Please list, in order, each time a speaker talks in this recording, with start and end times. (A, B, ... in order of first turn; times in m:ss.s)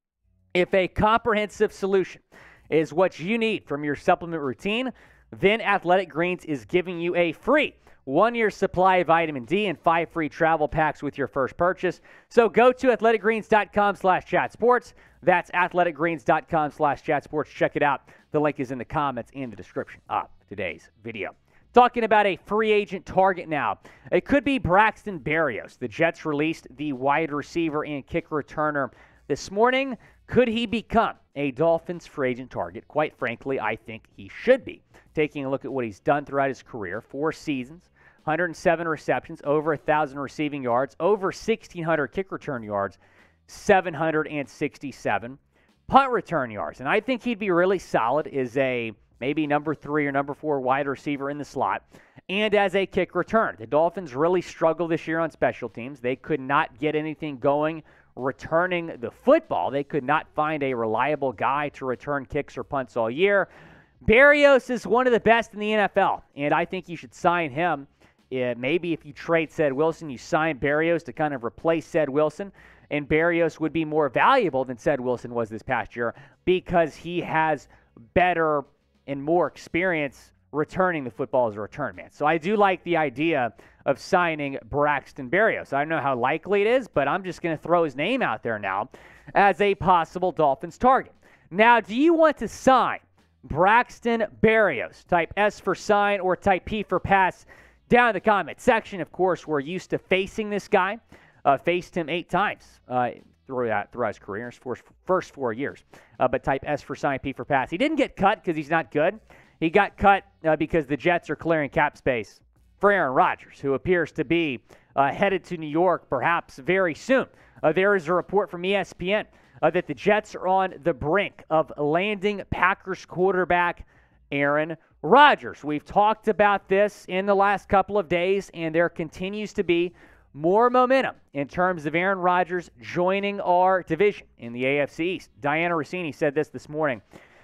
0:00.5-1:03.5 A
1:04.0-2:17.0 A